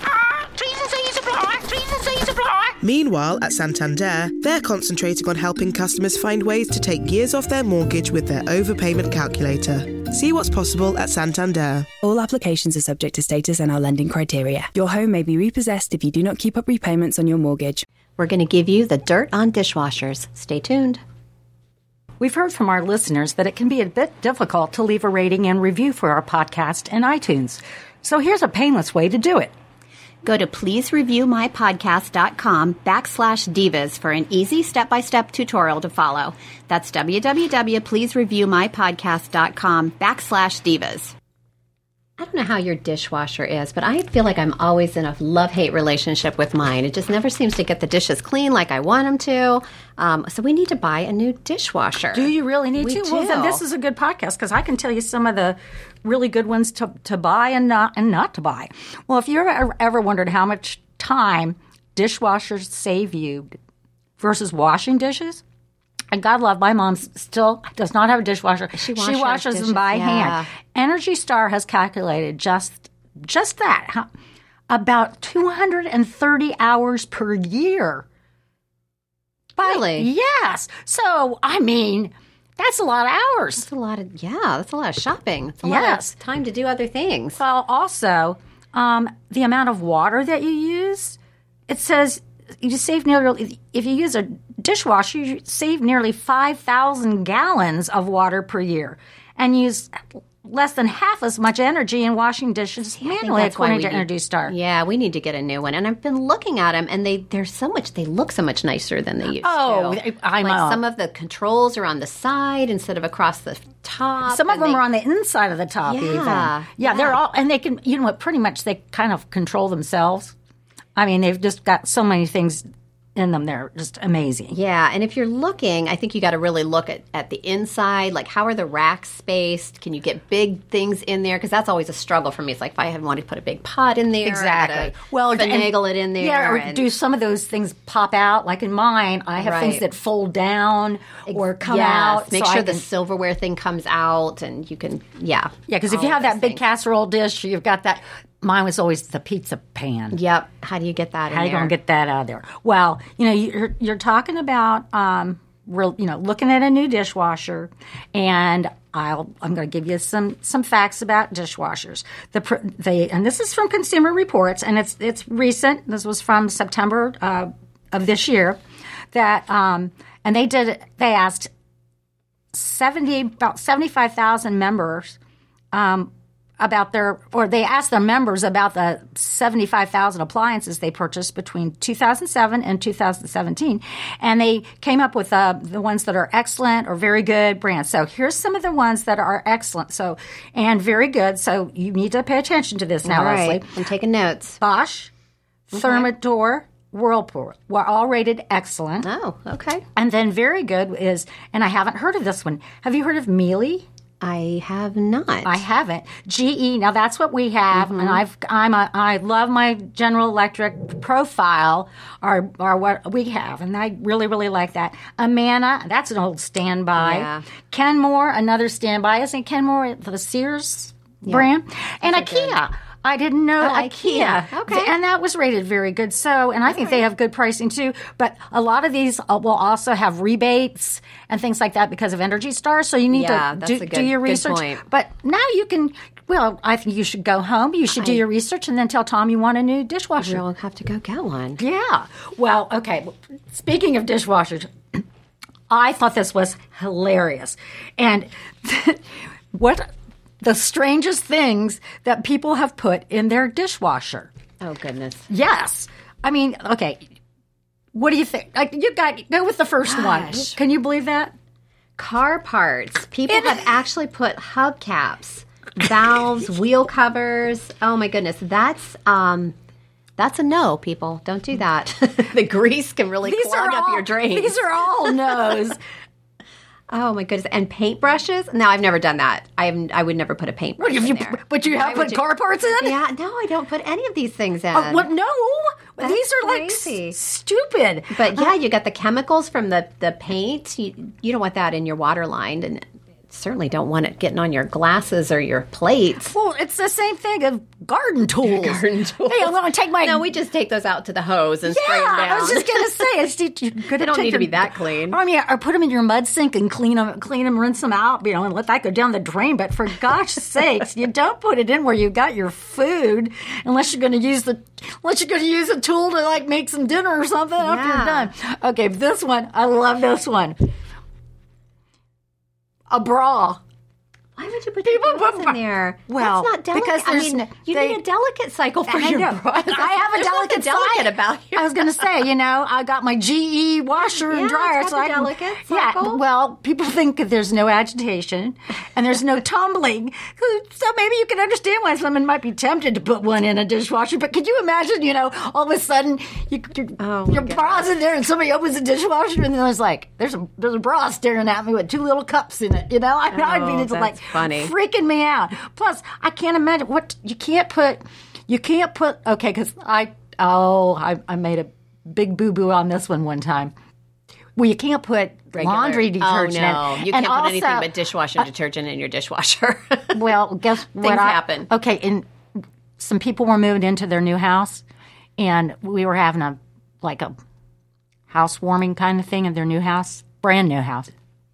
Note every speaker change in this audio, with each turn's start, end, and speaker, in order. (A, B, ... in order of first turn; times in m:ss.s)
0:00.6-0:02.7 A
0:02.8-0:11.9 B
0:12.0-0:17.8 C
0:18.2-0:21.0 D
0:22.2-0:29.5 E
0:30.2-0:41.1 D
0:42.2-0:53.6 D
0:52.1-1:03.5 E
1:04.2-1:05.4 E
1:06.1-1:14.1 E
1:08.8-1:10.5 D
1:14.7-1:18.0 E
1:19.6-1:20.1 D
1:19.6-1:23.6 E
1:23.6-1:27.4 D
1:25.6-1:26.2 E
1:27.4-1:44.5 E
1:43.0-1:54.8 D
1:49.3-1:50.8 E
1:54.2-2:00.3 E
1:55.8-1:57.2 D
2:01.0-2:02.6 E
2:03.2-2:04.6 E
2:04.5-2:16.9 D
2:14.2-2:22.8 E
2:19.4-2:19.8 D
2:21.2-2:26.6 D
2:25.7-2:30.2 E
2:30.1-2:31.7 D
2:31.3-2:48.6 E
2:49.1-2:51.5 E
2:52.5-2:55.2 E
2:55.7-3:13.7 E
3:13.0-3:14.6 D
3:14.6-3:15.1 E
3:15.7-3:19.1 E
3:15.7-3:16.1 D
3:19.0-3:19.8 D
3:19.9-3:23.8 E
3:24.2-3:25.6 D
3:25.4-4:00.4 E
3:27.7-3:28.2 D
3:37.0-3:37.4 D
3:41.2-3:41.5 D
3:42.0-3:42.6 D
3:43.6-3:44.9 D
3:46.7-3:47.0 D
3:53.1-3:54.8 D
3:57.9-3:58.2 D
4:00.2-4:01.6 D
4:01.6-4:05.0 E
4:05.7-4:09.9 E
4:10.4-4:14.3 E
4:14.6-4:15.3 D
4:15.3-4:17.0 E
4:17.9-4:21.3 E
4:19.8-4:20.5 D
4:22.0-4:29.6 D
4:23.3-4:23.6 E
4:30.2-4:35.4 D
4:33.2-4:35.8 E
4:36.9-4:42.3 D
4:40.8-4:43.0 E
4:42.8-4:45.1 D
4:44.7-4:48.6 E
4:46.0-4:47.2 D
4:48.1-4:56.3 D
4:56.3-5:00.3 E
4:58.4-5:03.1 D
5:01.6-5:20.6 E
5:03.9-5:05.2 D
5:17.6-5:18.3 D
5:22.9-5:23.6 E
5:24.4-5:32.0 D
5:24.8-5:28.0 E
5:28.9-6:03.7 E
5:34.0-5:36.2 D
5:47.0-5:47.9 D
5:53.3-5:54.7 D
6:04.6-6:07.9 E
6:05.5-6:10.4 D
6:10.1-6:12.2 E
6:10.9-6:11.7 D
6:13.0-6:14.8 E
6:15.4-6:17.3 E
6:18.3-6:21.1 E